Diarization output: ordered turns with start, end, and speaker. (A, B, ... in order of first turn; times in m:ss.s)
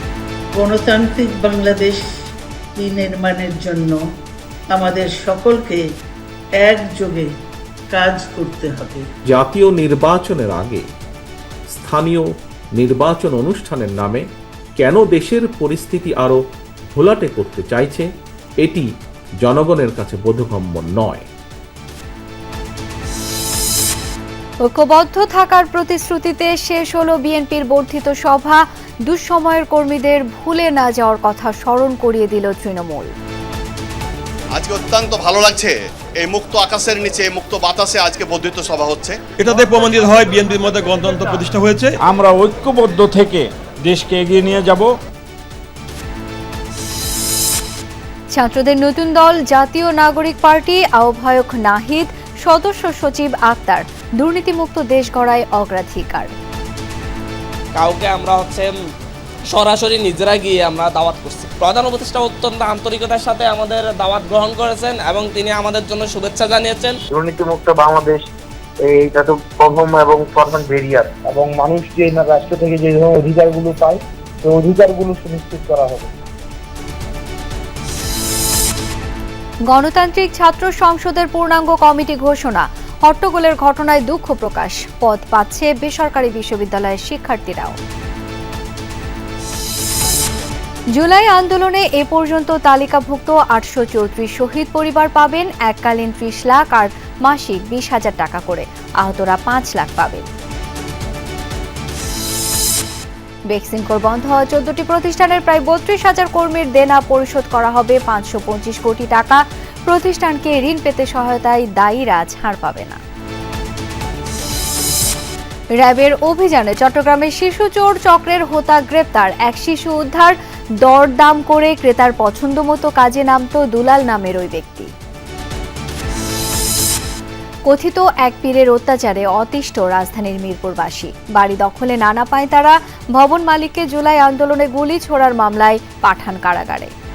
0:00.6-0:02.0 A
0:02.8-0:04.0 A
0:04.7-0:05.8 A
0:06.6-0:07.3 A
0:07.9-0:09.0 A
0:09.3-0:10.8 B
0:11.7-0:16.4 B
0:16.9-0:18.1 B
0:18.6-0:18.9 B
0:19.4-0:21.3 B
0:24.6-0:33.1 C
0:34.5-0:39.2 D
0:39.4-0:42.0 E
0:42.0-0:44.9 F
0:48.3-0:56.3 C
0:57.7-0:58.7 G
0:59.5-1:06.9 G
1:07.1-1:08.2 H
1:08.9-1:16.1 H
1:19.7-1:27.8 C
1:31.0-1:40.3 C
1:43.5-1:53.0 C
1:55.8-2:04.9 C
2:07.6-2:16.9 C